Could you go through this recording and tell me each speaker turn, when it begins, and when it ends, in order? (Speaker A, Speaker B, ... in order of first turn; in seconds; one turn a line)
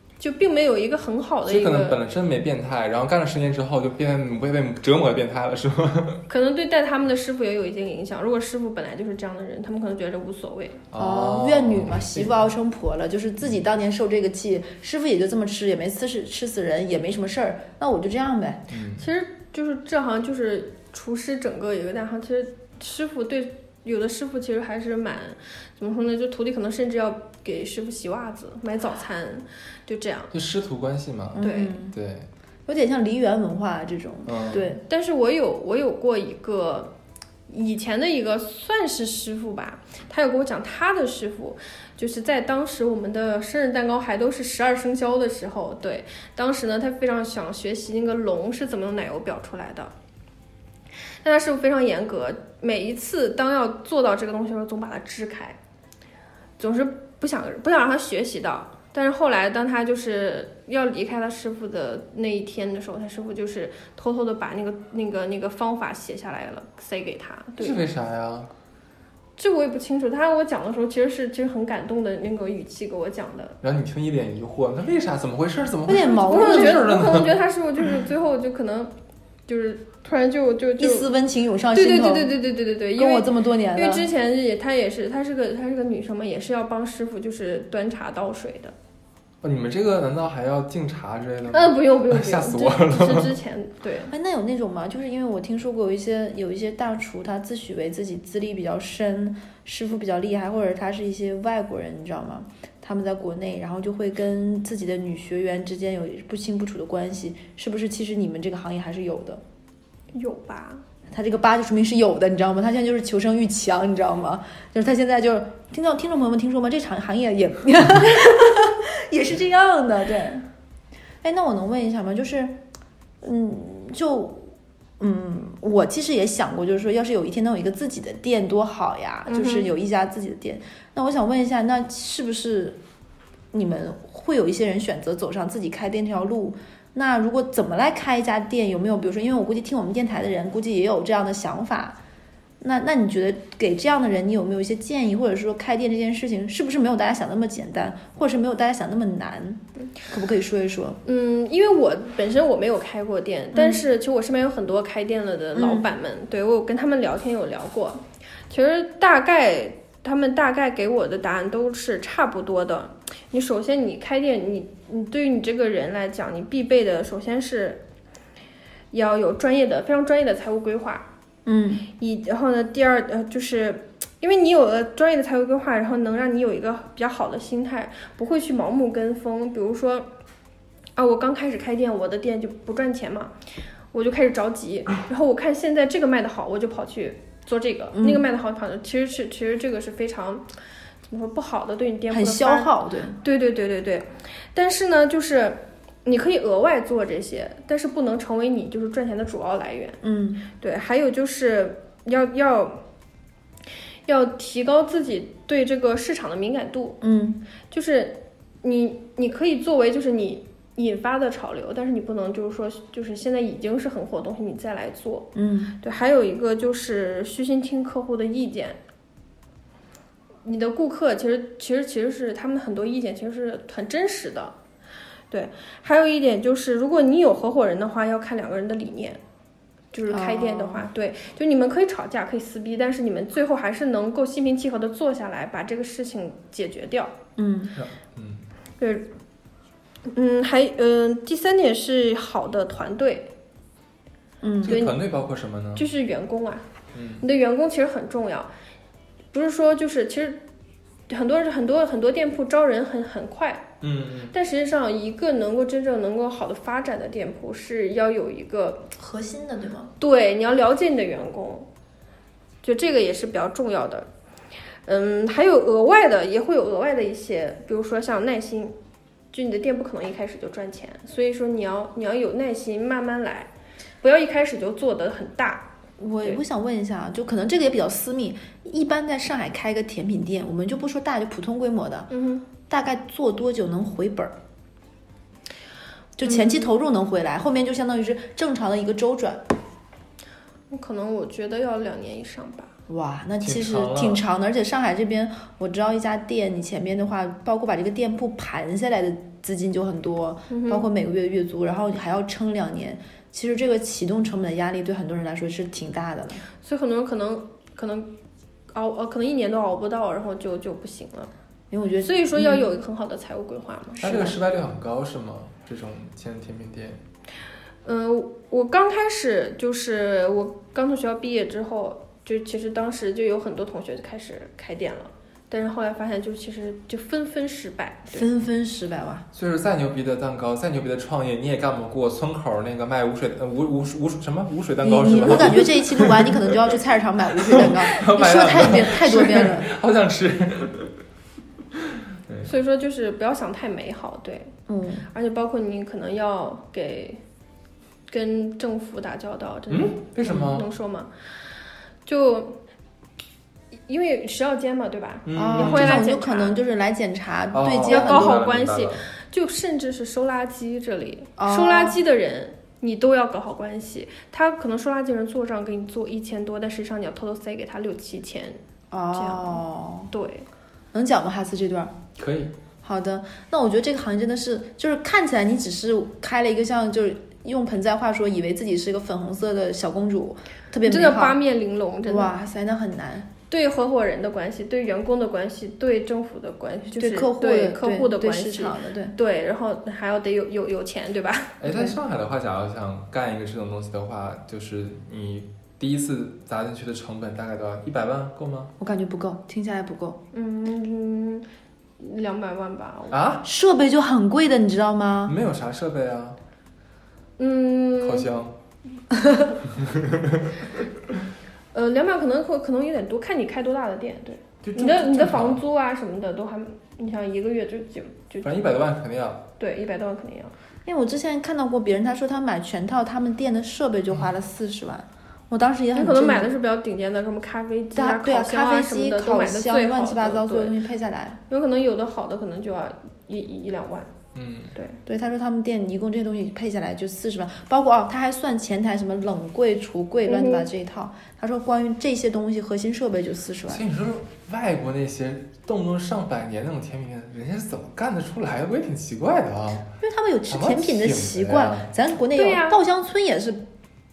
Speaker A: 0.2-2.0
Speaker B: 1.4-6.2
Speaker A: 6.3-10.8
Speaker B: 10.9-12.5
Speaker C: 10.9-18.6
Speaker B: 18.7-19.1
Speaker A: 19.0-30.3
Speaker B: 30.3-32.3
Speaker C: 31.3-31.9
Speaker A: 31.4-31.8
Speaker C: 32.7-34.8
Speaker B: 34.2-34.7
Speaker A: 34.8-36.9
Speaker A: 37.5-49.9
Speaker A: 51.2-55.6
Speaker A: 56.6-67.8
Speaker B: 67.6-68.5
Speaker A: 69.4-73.6
Speaker B: 73.6-77.4
Speaker C: 75.8-76.8
Speaker A: 76.3-78.9
Speaker A: 79.5-81.1
Speaker C: 80.8-82.3
Speaker A: 81.7-88.7
Speaker C: 83.0-84.0
Speaker B: 89.4-93.3
Speaker A: 91.5-94.1
Speaker C: 94.1-109.4
Speaker A: 110.1-110.8
Speaker C: 111.1-120.5
Speaker C: 121.2-122.6
Speaker C: 123.2-132.8
Speaker A: 129.3-129.7
Speaker C: 133.5-142.0
Speaker C: 142.6-151.0
Speaker A: 151.0-167.8
Speaker C: 153.5-153.8
Speaker C: 155.6-155.9
Speaker A: 168.9-171.1
Speaker C: 171.4-171.8
Speaker A: 171.9-180.1
Speaker A: 180.9-183.3
Speaker A: 183.9-190.4
Speaker C: 187.9-188.2
Speaker A: 191.1-200.0
Speaker C: 192.1-193.2
Speaker C: 200.0-200.4
Speaker A: 200.5-202.8
Speaker A: 204.1-207.0
Speaker C: 207.0-207.4
Speaker A: 207.7-215.3
Speaker C: 215.3-215.7
Speaker A: 215.8-218.8
Speaker A: 220.4-224.5
Speaker A: 225.3-229.2
Speaker A: 229.9-237.1
Speaker C: 230.1-230.9
Speaker C: 237.4-237.7
Speaker B: 237.7-238.4
Speaker A: 238.8-239.1
Speaker A: 240.1-243.3
Speaker C: 244.4-244.8
Speaker B: 244.6-245.8
Speaker A: 244.7-245.0
Speaker A: 245.8-246.7
Speaker B: 246.9-247.2
Speaker A: 247.2-248.5
Speaker A: 249.3-250.4
Speaker A: 251.1-253.7
Speaker B: 253.8-254.3
Speaker A: 254.3-258.9
Speaker C: 259.0-259.9
Speaker A: 260.0-261.7
Speaker A: 262.6-264.1
Speaker A: 264.9-268.7
Speaker A: 269.3-273.5
Speaker A: 274.0-275.7
Speaker C: 276.0-282.1
Speaker A: 282.1-282.4
Speaker C: 282.6-284.3
Speaker C: 286.2-289.4
Speaker A: 286.3-286.6
Speaker A: 290.7-292.7
Speaker C: 292.9-306.4
Speaker B: 293.4-294.2
Speaker A: 300.5-300.9
Speaker A: 306.6-308.1
Speaker A: 308.7-311.3
Speaker C: 311.7-312.7
Speaker A: 312.0-314.2
Speaker B: 314.0-317.0
Speaker C: 314.0-314.4
Speaker A: 317.8-328.2
Speaker C: 328.1-329.2
Speaker B: 329.3-336.5
Speaker C: 334.8-339.7
Speaker B: 337.4-340.9
Speaker A: 342.4-344.5
Speaker C: 344.7-345.1
Speaker A: 345.1-347.2
Speaker A: 348.1-351.1
Speaker B: 349.7-350.7
Speaker A: 352.0-352.6
Speaker A: 353.9-356.6
Speaker B: 355.2-356.1
Speaker C: 355.3-358.4
Speaker B: 357.5-359.1
Speaker A: 357.8-368.6
Speaker C: 361.4-362.0
Speaker C: 368.9-370.1
Speaker A: 369.1-370.5
Speaker C: 370.9-371.9
Speaker B: 372.2-372.5
Speaker C: 372.8-381.4
Speaker A: 380.8-382.3
Speaker C: 382.1-383.3
Speaker A: 383.5-391.6
Speaker C: 386.9-389.1
Speaker B: 391.6-398.7
Speaker C: 391.7-391.9
Speaker C: 398.8-400.2
Speaker A: 400.3-401.4
Speaker A: 402.0-403.2
Speaker B: 403.1-403.4
Speaker C: 403.4-405.4
Speaker B: 405.2-406.4
Speaker A: 407.4-408.3
Speaker B: 408.0-408.5
Speaker C: 409.1-409.5
Speaker B: 409.7-410.5
Speaker A: 411.7-418.7
Speaker B: 414.6-415.6
Speaker B: 418.4-419.4
Speaker A: 419.6-420.5
Speaker C: 420.8-426.5
Speaker A: 425.9-430.8
Speaker C: 427.9-431.4
Speaker A: 431.5-434.1
Speaker B: 434.3-434.7
Speaker C: 435.1-443.8
Speaker A: 440.3-440.7
Speaker B: 443.7-449.9
Speaker C: 450.0-453.6
Speaker B: 450.5-451.9
Speaker A: 452.4-452.8